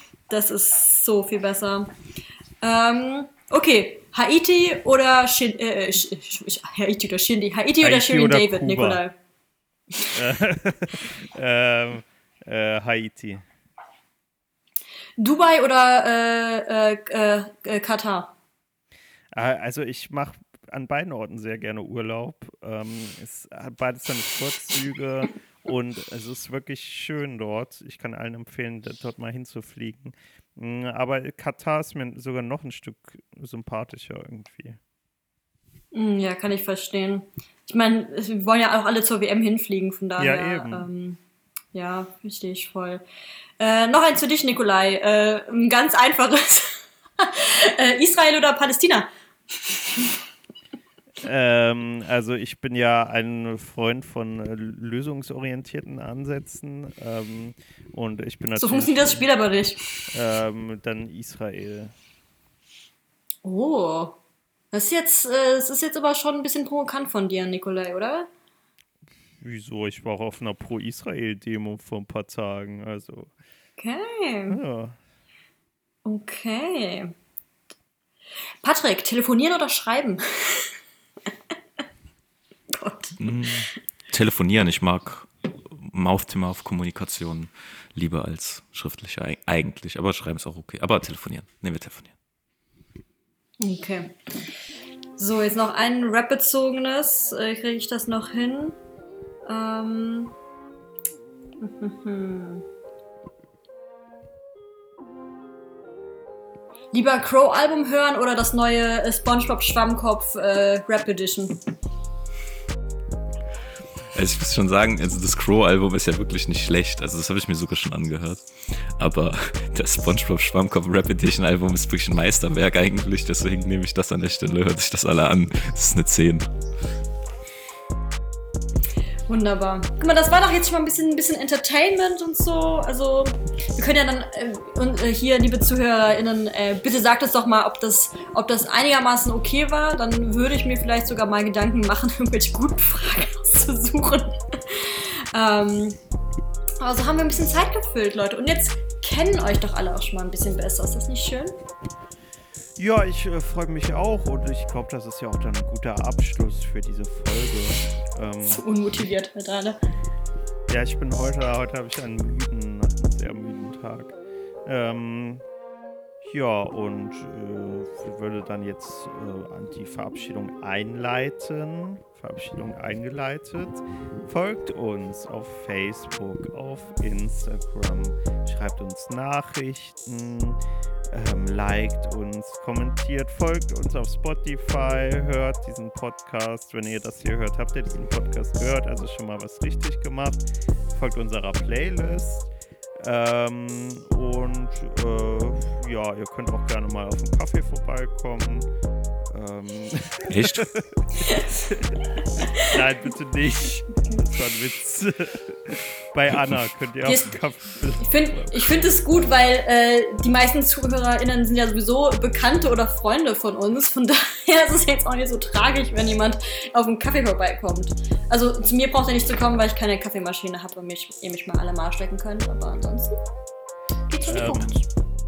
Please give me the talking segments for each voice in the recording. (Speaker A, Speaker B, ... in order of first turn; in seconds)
Speaker A: 0.3-1.9, 2.6-9.1, 15.2-18.3, 35.9-41.2, 41.7-43.0, 43.6-50.2, 58.6-60.1, 63.4-64.2, 64.7-68.3, 73.8-74.6, 76.0-77.1, 78.6-80.7, 82.7-83.5, 93.6-94.1, 95.2-98.8, 99.5-100.3, 101.6-102.6, 106.9-111.6, 129.3-146.0, 146.8-151.5, 158.5-159.8, 207.0-207.3, 208.0-223.2, 224.1-224.8
Speaker B: 7.8-9.0, 10.1-13.4, 19.3-34.8, 40.2-40.9, 51.2-59.2, 60.1-61.9, 69.4-73.3, 74.5-75.0, 152.8-158.6, 160.7-165.4, 166.2-180.6, 181.1-198.7, 199.3-202.0, 202.5-208.6, 224.2-224.8
Speaker C: 83.2-92.1, 114.1-126.5, 200.3-200.7